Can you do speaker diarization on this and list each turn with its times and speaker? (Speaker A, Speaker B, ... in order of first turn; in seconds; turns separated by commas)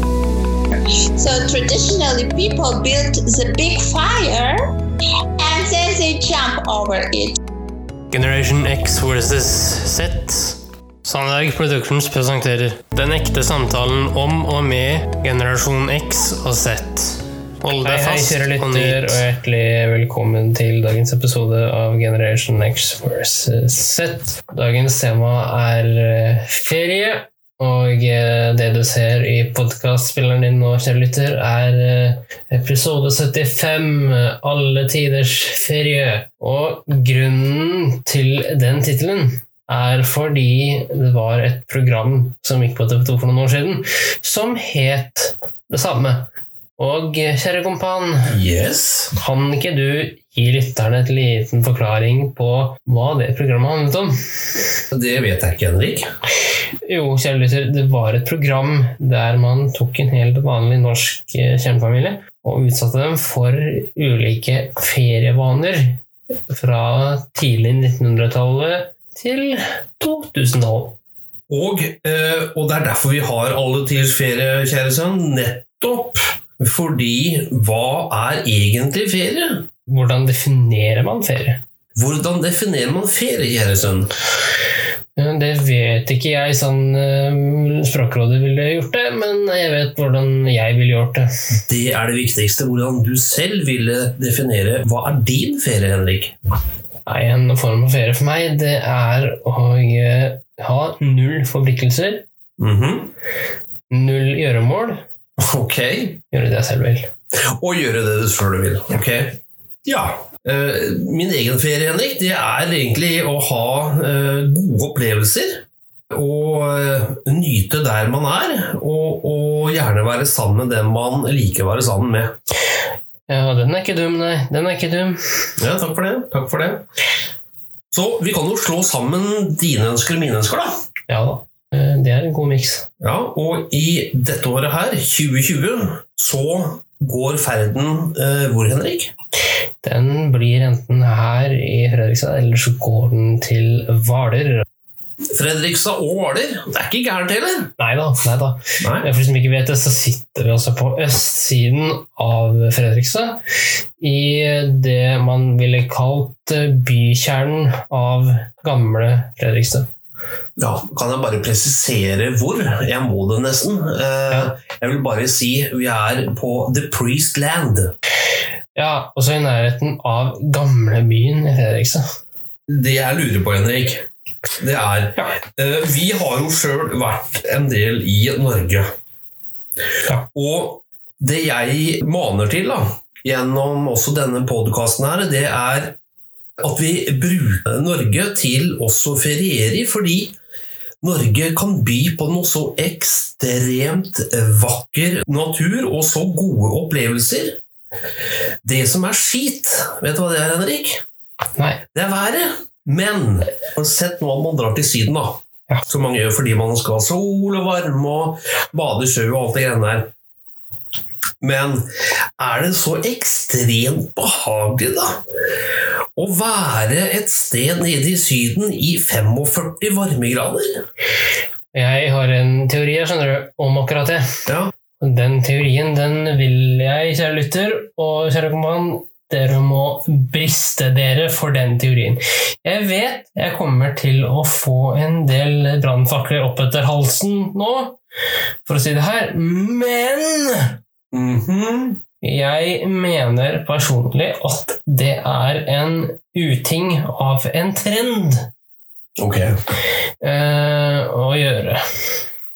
Speaker A: 0.8-4.7, Speaker A: 5.4-7.4, Speaker B: 8.1-16.3, Speaker C: 15.3-17.0, Speaker C: 17.6-19.2, Speaker B: 17.8-48.3, Speaker D: 48.2-49.1, Speaker B: 49.1-54.1, Speaker D: 54.9-56.1, Speaker B: 56.8-71.0, Speaker D: 71.5-79.7, Speaker B: 79.9-81.6, Speaker D: 82.0-84.1, Speaker B: 85.2-91.3, Speaker D: 91.7-96.3, Speaker B: 97.0-102.2, Speaker D: 102.6-103.1, Speaker B: 103.9-105.0, Speaker D: 105.4-106.2, Speaker B: 106.3-107.1, Speaker D: 107.5-122.3, Speaker B: 123.3-125.5, Speaker D: 125.6-126.8, Speaker D: 127.9-130.7, Speaker B: 131.1-132.9, Speaker D: 133.0-139.1, Speaker B: 139.8-144.7, Speaker D: 145.3-147.7, Speaker B: 147.8-153.4, Speaker D: 148.8-149.1, Speaker B: 154.0-159.9, Speaker D: 160.6-167.9, Speaker B: 168.8-172.0, Speaker D: 172.7-174.1, Speaker D: 174.6-178.9, Speaker D: 180.2-185.9, Speaker D: 186.6-190.3, Speaker D: 191.0-197.6, Speaker D: 198.6-201.0, Speaker D: 201.9-210.1, Speaker D: 211.4-211.9, Speaker D: 212.4-215.2, Speaker D: 216.2-220.8, Speaker B: 221.7-224.2, Speaker B: 225.0-238.0, Speaker B: 238.6-240.7, Speaker D: 241.1-242.0, Speaker B: 242.2-248.4, Speaker D: 249.2-249.5, Speaker B: 250.2-251.8